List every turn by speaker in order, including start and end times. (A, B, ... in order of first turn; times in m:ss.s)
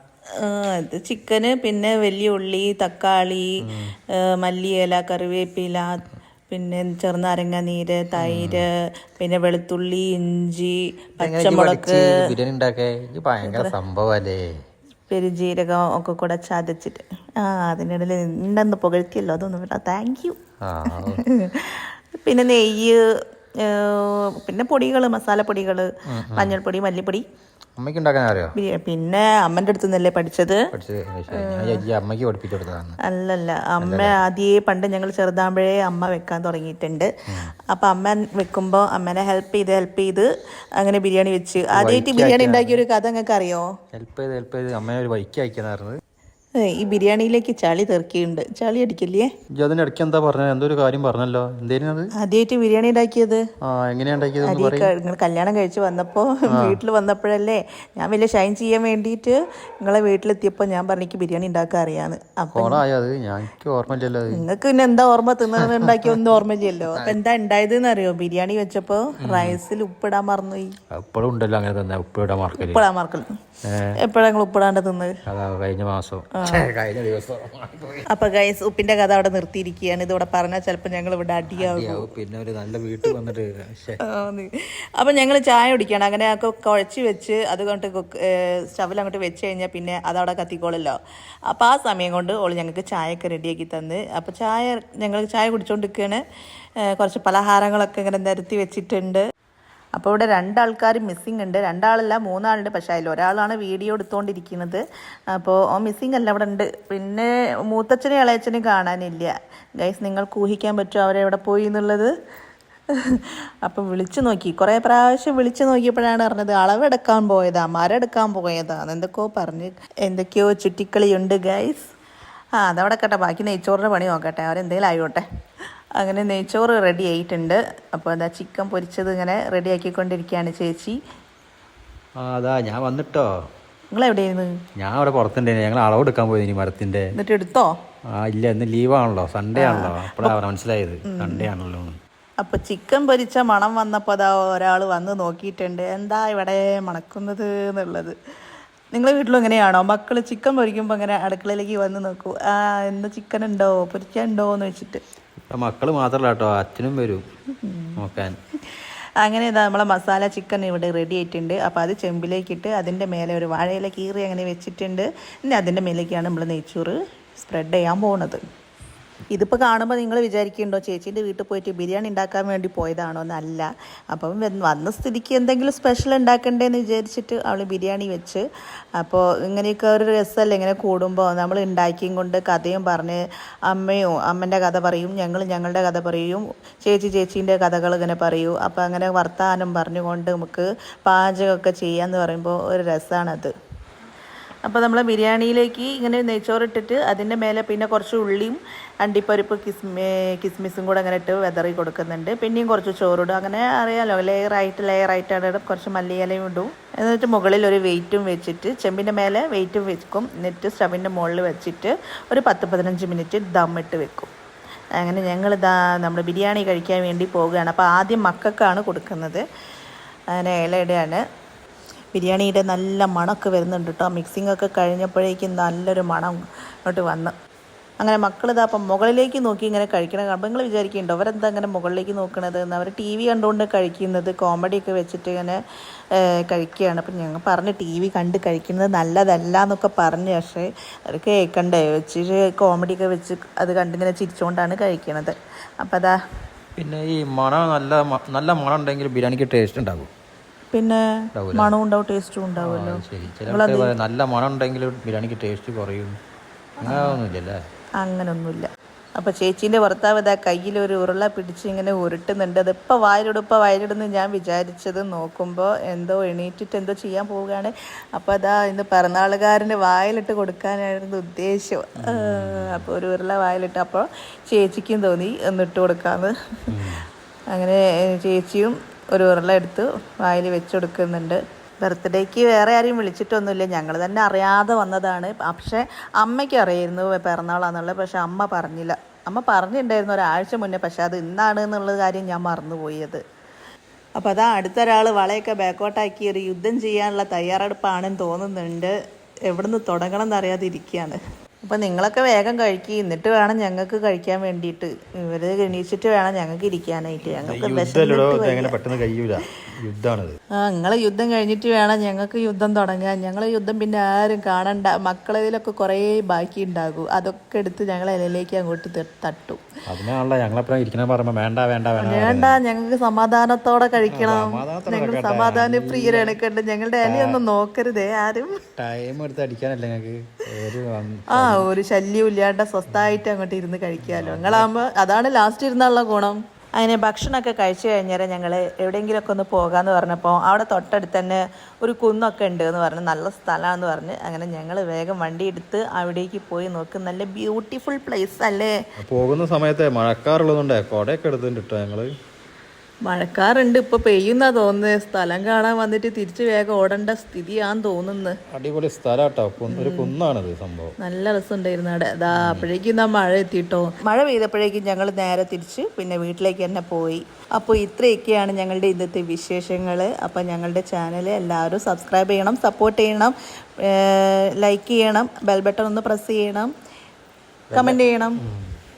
0:00.4-0:03.5 A
0:03.6-0:04.0 B
0:04.2-0:12.2 A
0:08.2-0:08.7 B
0:11.2-0:14.5 B
0:13.4-0:13.8 A
0:15.1-0:23.0 A
0:20.6-0:21.2 B
0:23.6-0:27.2 A
0:26.1-0:26.6 B
0:27.8-0:28.6 B
0:28.6-0:30.7 A
0:30.7-0:33.0 B
0:31.3-0:31.8 A
0:33.0-0:37.1 A
0:33.8-0:34.2 B
0:37.3-0:37.5 B
0:37.7-0:43.7 A
0:41.7-0:42.8 B
0:43.9-0:46.0 B
0:46.6-0:49.3 A
0:49.5-0:52.1 B
0:52.2-0:53.4 A
0:53.6-0:54.9 B
0:54.4-1:02.8 A
0:56.5-0:56.8 B
1:02.5-1:04.4 B
1:04.3-1:10.8 A
1:05.6-1:06.2 B
1:09.2-1:09.6 B
1:10.9-1:12.8 B
1:12.6-1:13.3 A
1:13.6-1:14.0 B
1:14.0-1:15.2 A
1:15.3-1:18.1 B
1:16.3-1:16.7 A
1:18.1-1:22.2 A
1:21.6-1:24.0 B
1:24.0-1:31.0 A
1:31.5-1:36.2 A
1:36.9-1:39.2 A
1:40.0-1:44.8 A
1:45.3-1:52.1 A
1:52.9-2:01.9 A
2:02.6-2:05.2 A
2:06.0-2:11.0 A
2:12.2-2:13.3 B
2:13.9-2:14.5 A
2:14.8-2:17.1 B
2:17.2-2:17.7 A
2:18.2-2:22.0 B
2:19.6-2:20.4 A
2:21.1-2:21.5 A
2:22.4-2:28.2 A
2:28.9-2:35.0 A
2:35.5-2:37.2 B
2:37.6-2:38.0 A
2:38.0-2:38.4 B
2:38.7-2:48.4 A
2:49.3-2:58.4 A
2:59.0-3:13.5 A
3:14.6-3:34.3 A
3:35.0-3:39.4 A
3:40.3-3:41.2 A
3:42.2-3:47.3 A
3:48.0-3:55.6 A
3:56.1-4:06.2 A
4:06.8-4:10.1 B
4:10.7-4:11.0 A
4:11.4-4:11.7 B
4:11.5-4:13.9 A
4:12.6-4:16.2 B
4:16.8-4:17.2 A
4:16.8-4:17.6 B
4:18.0-4:37.0 A
4:32.0-4:32.9 B
4:36.7-4:37.1 B
4:37.5-4:53.2 A
4:54.2-4:58.9 A
4:59.5-5:08.8 A
5:07.4-5:10.4 B
5:10.6-5:19.6 A
5:19.9-5:22.6 B
5:22.0-5:28.6 A
5:24.1-5:26.4 B
5:27.0-5:27.4 B
5:28.8-5:31.7 B
5:31.3-5:48.8 A
5:32.9-5:33.2 B
5:34.0-5:34.7 B
5:49.0-5:52.1 B
5:53.1-5:58.4 A
5:58.5-6:01.0 B
5:59.7-6:00.1 A
6:01.0-6:16.7 A
6:02.3-6:02.7 B
6:17.7-6:18.8 B
6:17.7-6:18.4 A